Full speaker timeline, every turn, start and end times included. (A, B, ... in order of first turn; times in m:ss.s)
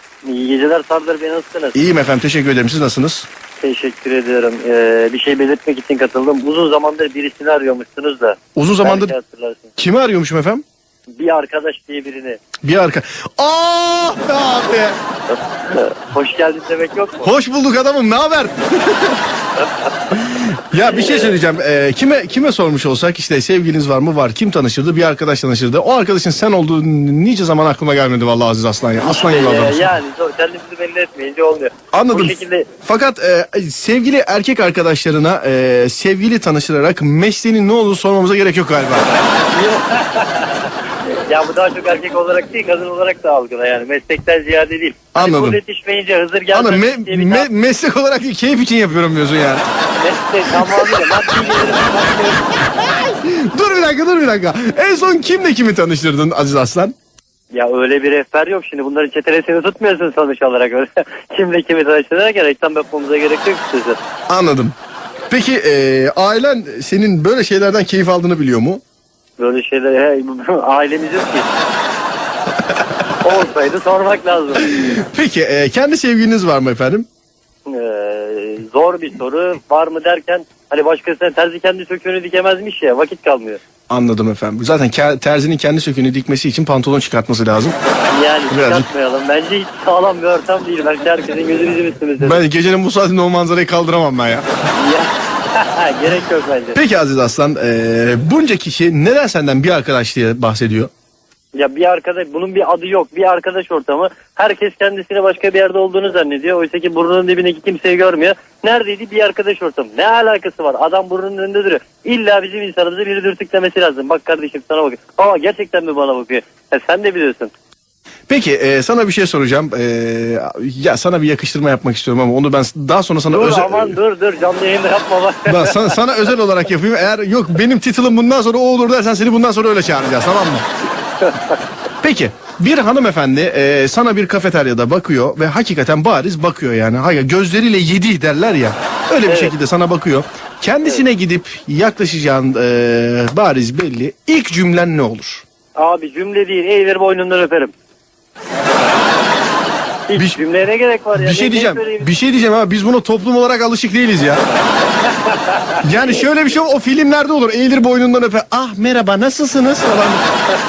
0:00.2-0:01.8 A
0:01.7-0:03.3 B
0:03.6-0:09.7 A
0:08.6-0:09.1 B
0:09.8-0:10.6 B
0:11.2-0:12.4 A
0:12.6-0:15.0 B
0:15.7-0:17.3 A
0:17.2-0:19.2 B
0:20.1-0:29.9 B
0:20.8-0:21.2 A
0:29.0-0:32.7 A
0:31.9-0:39.1 B
0:39.5-0:40.7 A
0:41.3-0:47.5 A
0:45.1-0:45.6 B
0:46.5-0:49.6 B
0:49.9-0:52.5 A
0:50.5-0:51.2 B
0:52.8-0:56.9 B
0:57.5-1:04.0 A
1:04.3-1:04.7 B
1:05.3-1:08.8 B
1:09.4-1:11.5 A
1:13.2-1:14.7 A
1:14.6-1:17.1 B
1:17.6-1:23.6 A
1:23.9-1:27.8 B
1:28.1-1:32.4 A
1:28.5-1:28.9 B
1:32.2-1:34.4 B
1:34.7-1:36.8 A
1:36.7-1:40.9 B
1:41.6-1:57.5 A
1:58.3-2:04.0 B
2:03.3-2:06.0 A
2:05.4-2:10.6 B
2:11.2-2:11.5 A
2:12.0-2:25.4 B
2:19.2-2:19.5 A
2:25.8-2:27.7 A
2:30.1-2:32.1 A
2:30.1-2:30.4 B
2:31.1-2:34.4 B
2:35.0-2:36.2 A
2:35.8-2:40.2 B